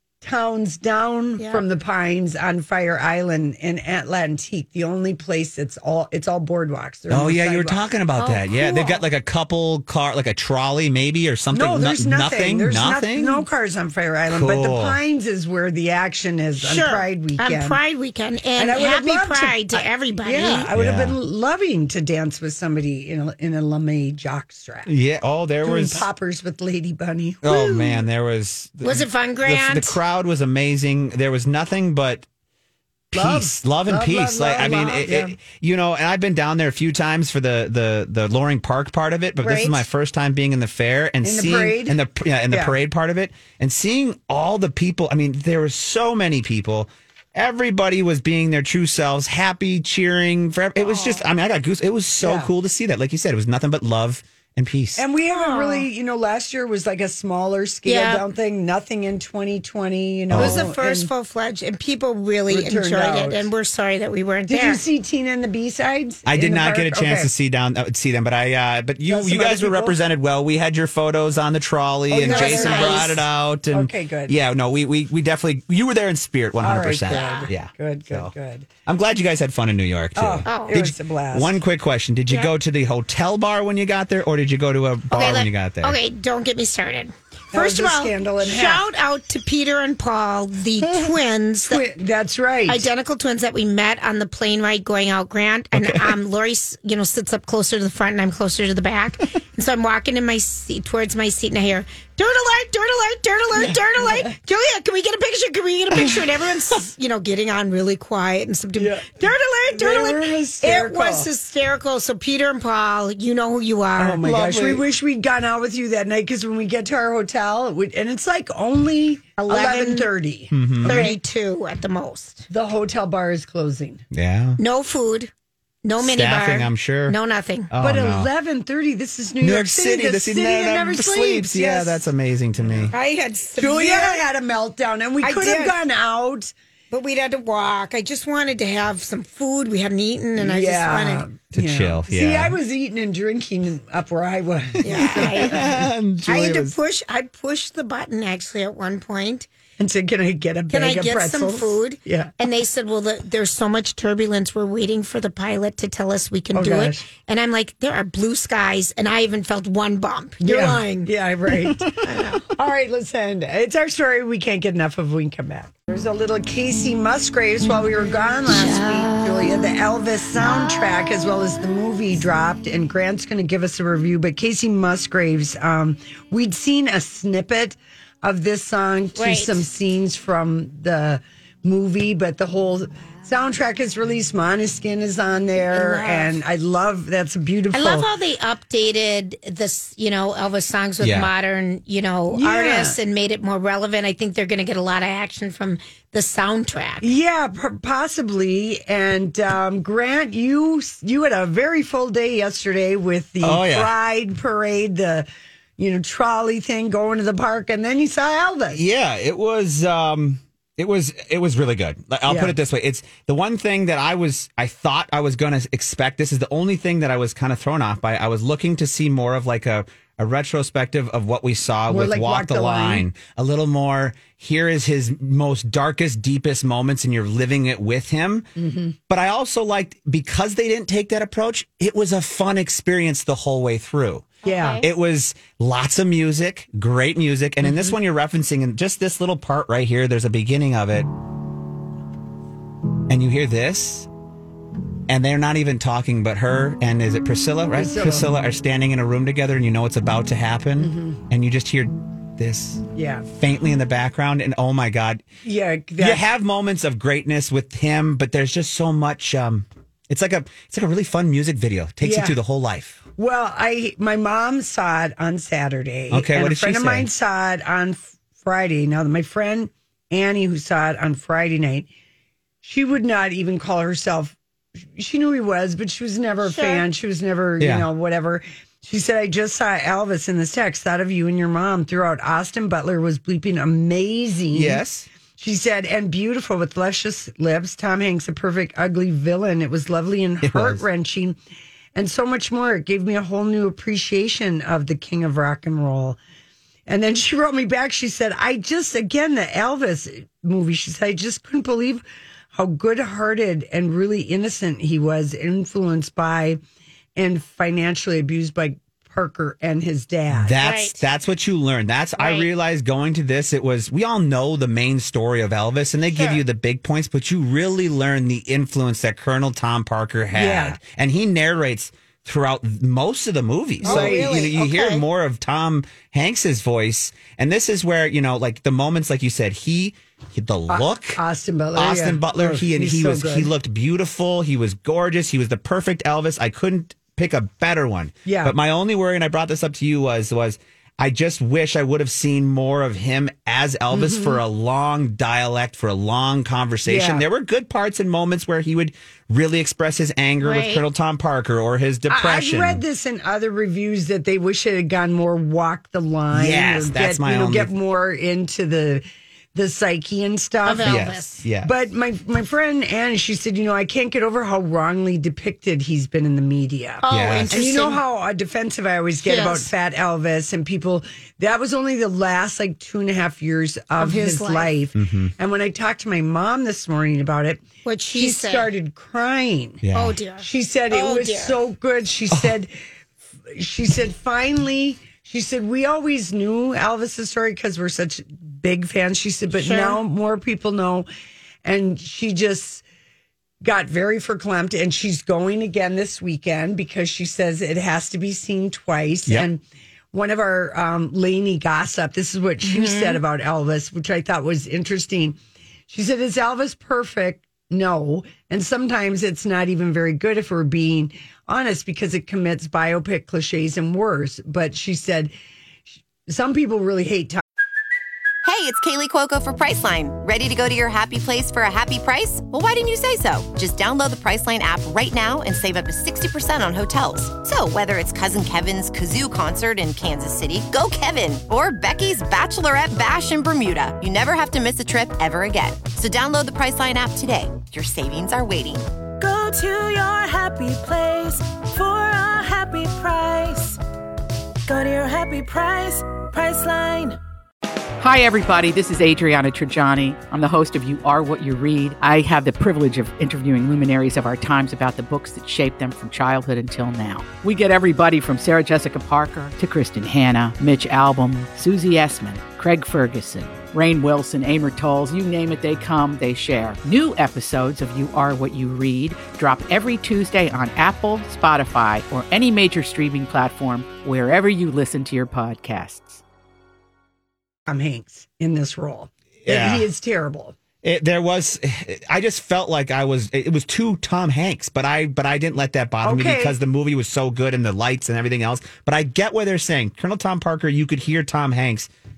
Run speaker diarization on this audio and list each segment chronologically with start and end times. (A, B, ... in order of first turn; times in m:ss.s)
0:00.2-0:07.8 A
0:01.4-0:01.6 B
0:07.1-0:13.4 C
0:08.2-0:09.0 B
0:11.5-0:17.8 A
0:14.3-0:15.0 C
0:16.6-0:20.7 B
0:18.6-0:24.9 A
0:20.7-0:21.2 C
0:24.9-0:26.1 C
0:25.6-0:28.0 A
0:27.4-0:32.3 C
0:28.8-0:30.0 B
0:33.1-0:55.0 C
0:33.1-0:35.4 A
0:39.4-0:39.8 B
0:41.2-0:42.0 A
0:50.8-0:51.2 B
0:52.2-0:52.5 A
0:55.0-1:01.1 A
0:55.3-0:55.8 B
0:57.9-0:58.2 B
1:00.3-1:00.6 C
1:00.4-1:04.8 B
1:02.5-1:03.5 A
1:04.5-1:07.3 A
1:06.3-1:18.3 C
1:09.1-1:10.0 A
1:12.1-1:14.4 A
1:12.2-1:13.2 B
1:16.6-1:18.7 A
1:17.1-1:17.5 B
1:18.9-1:26.0 C
1:20.2-1:21.6 A
1:20.5-1:20.8 B
1:25.1-1:31.8 B
1:27.5-1:28.8 A
1:31.7-1:32.8 A
1:32.7-1:54.2 B
1:35.7-1:36.1 C
1:43.6-1:44.3 A
1:48.8-1:49.1 A
1:49.7-1:51.3 A
1:54.0-2:01.2 A
1:54.2-1:54.8 C
1:59.4-2:00.1 B
2:00.5-2:01.1 C
2:00.8-2:02.5 B
2:02.5-2:04.0 A
2:04.1-2:04.6 C
2:04.6-2:05.3 B
2:05.8-2:07.7 B
2:06.0-2:07.2 C
2:07.7-2:08.3 C
2:07.8-2:12.1 A
2:09.4-2:12.9 C
2:12.6-2:12.9 A
2:12.9-2:14.2 B
2:13.6-2:16.5 A
2:15.2-2:15.8 B
2:16.9-2:21.3 B
2:20.4-2:25.9 A
2:21.5-2:22.6 C
2:24.8-2:25.6 B
2:25.0-2:26.8 C
2:26.2-2:29.5 B
2:29.8-2:32.3 A
2:30.7-2:41.1 B
2:36.5-2:37.0 A
2:40.4-2:41.9 A
2:41.9-2:42.5 B
2:42.5-3:08.1 A
2:48.5-2:49.2 B
2:59.2-2:59.6 B
3:05.7-3:06.3 B
3:07.7-3:17.0 B
3:11.0-3:11.3 C
3:12.3-3:13.0 A
3:17.0-3:28.8 A
3:23.4-3:23.9 C
3:28.7-3:48.5 C
3:32.3-3:32.6 A
3:41.9-3:43.1 A
3:48.6-3:48.9 A
3:49.1-4:01.1 C
3:54.4-3:54.8 A
3:54.4-3:54.8 B
3:57.7-3:57.9 A
4:03.1-4:04.1 C
4:05.1-4:15.2 C
4:07.8-4:08.3 A
4:10.8-4:11.2 A
4:13.0-4:13.3 A
4:15.4-4:16.2 A
4:16.0-4:23.0 C
4:22.0-4:22.4 A
4:23.2-4:31.9 A
4:26.1-4:27.1 C
4:32.6-4:44.8 A
4:36.4-4:36.8 B
4:37.6-4:37.9 C
4:44.5-4:45.1 C
4:45.4-4:51.4 A
4:50.4-4:50.8 C
4:52.0-4:56.2 A
4:56.9-5:06.6 A
5:07.2-5:10.6 A
5:10.3-5:31.2 C
5:10.6-5:11.0 B
5:12.2-5:12.5 B
5:16.1-5:16.4 B
5:20.4-5:20.8 A
5:23.8-5:24.5 A
5:23.8-5:25.0 B
5:30.7-5:33.5 A
5:31.8-5:52.8 C
5:38.3-5:38.5 A
5:43.9-5:44.4 A
5:46.8-5:47.3 A
5:50.4-5:50.8 B
5:52.1-6:01.0 A
5:56.3-5:57.7 C
6:00.6-6:01.4 B
6:00.8-6:01.7 C
6:01.6-6:19.8 A
6:07.0-6:08.0 B
6:07.1-6:07.5 C
6:09.2-6:09.7 B
6:14.0-6:14.7 B
6:15.0-6:15.3 C
6:17.8-6:18.7 B
6:19.8-6:20.2 C
6:19.9-6:21.6 B
6:20.4-6:22.7 A
6:23.5-6:31.1 A
6:29.6-6:30.0 B
6:31.6-6:32.8 A
6:33.6-6:45.4 A
6:42.6-6:43.2 B
6:45.9-6:55.3 A
6:56.3-6:57.4 A
6:58.4-7:18.9 D
7:19.2-7:23.8 E
7:24.7-7:27.2 E
7:28.0-7:56.2 F
7:57.7-8:00.6 A
7:59.4-7:59.9 C
8:00.8-8:11.9 C
8:06.0-8:06.6 A